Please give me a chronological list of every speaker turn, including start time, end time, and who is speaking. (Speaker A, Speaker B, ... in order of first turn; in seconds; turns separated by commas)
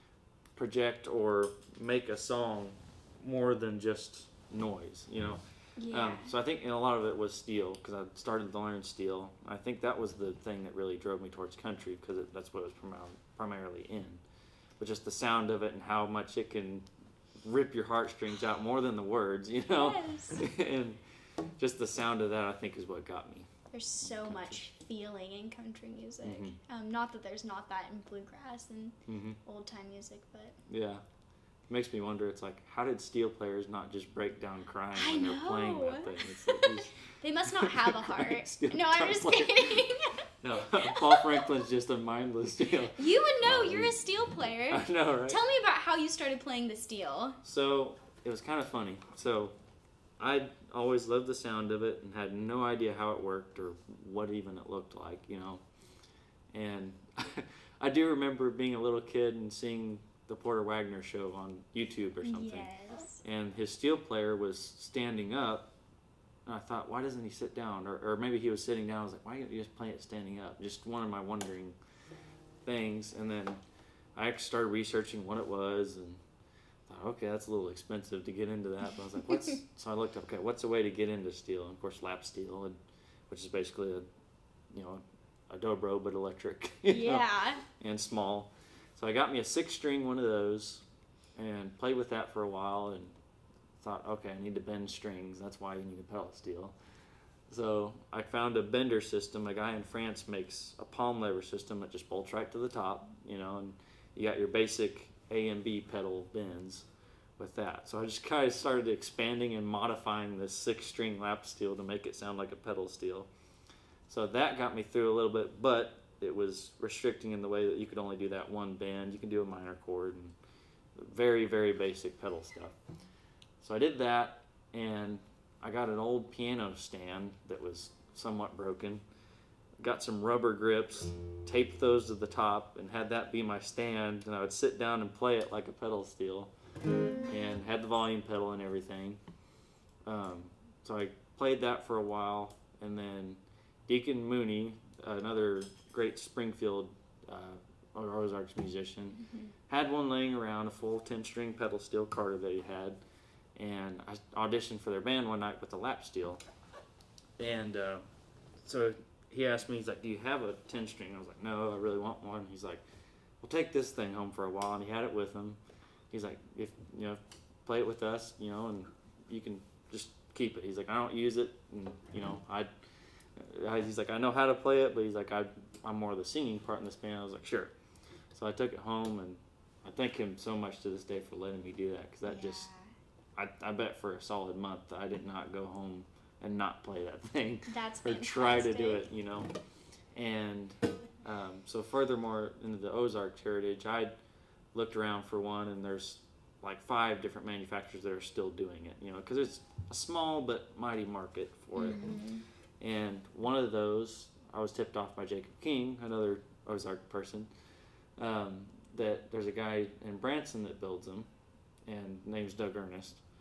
Speaker A: 0.5-14.2, Speaker B: 5.8-6.3, Speaker A: 14.8-16.9, Speaker A: 17.4-21.0, Speaker B: 19.7-20.4, Speaker A: 21.6-23.5, Speaker B: 23.7-30.6, Speaker A: 24.0-24.6, Speaker A: 26.2-26.6, Speaker A: 29.1-29.4, Speaker A: 30.7-31.0, Speaker A: 31.7-37.0, Speaker B: 35.0-41.5, Speaker A: 37.5-39.8, Speaker A: 40.4-44.0, Speaker B: 43.0-47.4, Speaker A: 44.7-45.4, Speaker A: 47.4-49.5, Speaker A: 50.2-55.6, Speaker A: 56.5-62.7, Speaker B: 62.2-63.2, Speaker A: 63.2-65.7, Speaker A: 66.5-71.8, Speaker A: 72.6-73.6, Speaker A: 74.1-76.2, Speaker A: 76.9-82.8, Speaker A: 83.3-84.1, Speaker A: 84.7-87.2, Speaker B: 86.9-87.6, Speaker A: 87.8-90.8, Speaker A: 91.4-93.1, Speaker A: 93.8-96.8, Speaker A: 97.5-106.9, Speaker A: 107.4-113.3, Speaker A: 114.1-120.4, Speaker A: 121.0-122.8, Speaker A: 123.6-129.0, Speaker A: 129.8-136.5, Speaker A: 137.3-139.2, Speaker A: 140.0-153.0, Speaker B: 149.2-149.5, Speaker A: 153.6-156.4, Speaker A: 157.4-158.0, Speaker A: 158.6-162.8, Speaker A: 163.4-165.6, Speaker A: 166.1-172.7, Speaker A: 173.3-177.7, Speaker A: 178.3-182.7, Speaker B: 182.2-182.9, Speaker A: 183.4-189.5, Speaker B: 187.7-189.1, Speaker A: 190.1-194.1, Speaker A: 194.7-202.2, Speaker B: 201.8-202.4, Speaker A: 202.8-207.5, Speaker A: 208.2-211.3, Speaker A: 211.9-213.2